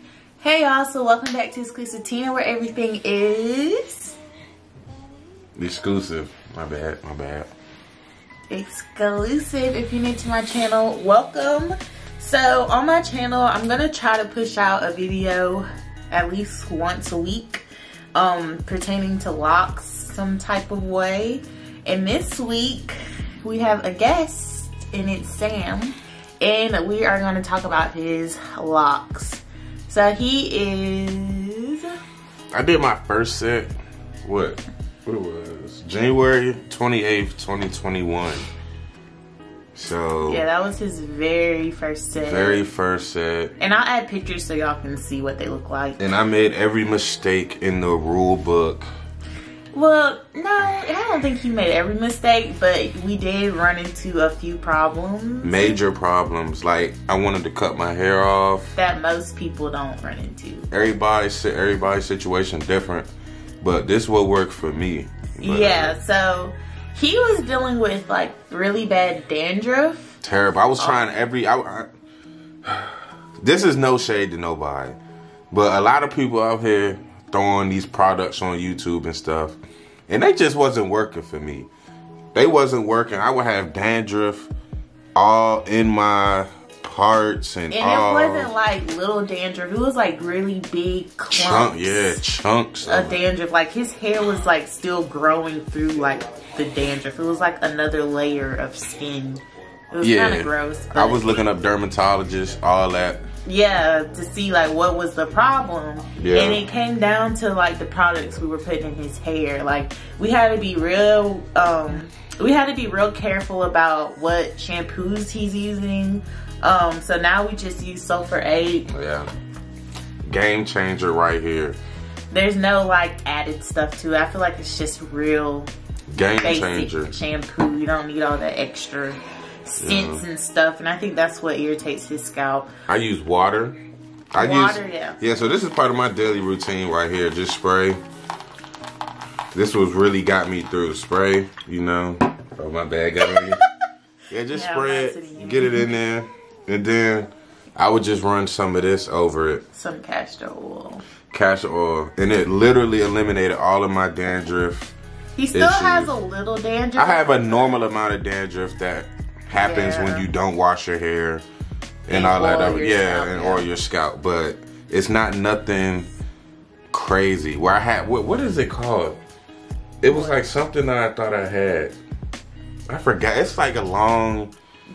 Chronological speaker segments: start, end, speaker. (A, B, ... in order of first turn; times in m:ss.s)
0:00.4-0:04.2 A
0:05.6-0:07.5 B
0:08.5-0:32.0 A
0:32.5-0:33.7 B
0:34.2-0:38.5 B
0:39.7-0:40.4 B
0:40.2-0:42.6 A
0:42.1-0:43.5 B
0:43.6-0:46.0 A
0:46.0-0:48.8 B
0:49.7-0:55.8 A
0:55.4-0:58.7 B
0:58.7-1:00.7 A
1:00.7-1:03.1 B
1:03.6-1:06.0 B
1:05.4-1:10.2 A
1:10.2-1:11.9 B
1:10.8-1:11.1 A
1:12.6-1:15.0 B
1:15.5-1:19.6 B
1:20.1-1:21.7 B
1:22.3-1:24.5 B
1:25.1-1:28.5 B
1:27.7-1:32.2 A
1:31.3-1:33.2 B
1:32.8-1:39.4 A
1:39.9-1:41.4 A
1:40.0-1:43.2 B
1:43.4-1:58.9 A
1:46.2-1:46.6 B
1:58.9-1:59.3 B
2:00.2-2:01.8 B
2:02.3-2:05.7 A
2:06.1-2:07.1 B
2:06.4-2:12.7 A
2:09.8-2:10.2 B
2:12.9-2:13.8 B
2:14.3-2:18.0 B
2:14.4-2:15.2 A
2:19.5-2:23.6 B
2:24.3-2:29.6 B
2:24.5-2:25.9 A
2:29.7-2:31.0 A
2:31.3-2:34.9 B
2:35.4-2:37.8 A
2:35.5-2:36.1 B
2:37.0-2:41.4 B
2:39.6-2:40.3 A
2:42.0-2:46.1 B
2:42.1-2:43.7 A
2:46.9-2:49.2 B
2:50.0-2:52.0 B
2:50.1-2:50.4 A
2:52.9-2:54.5 B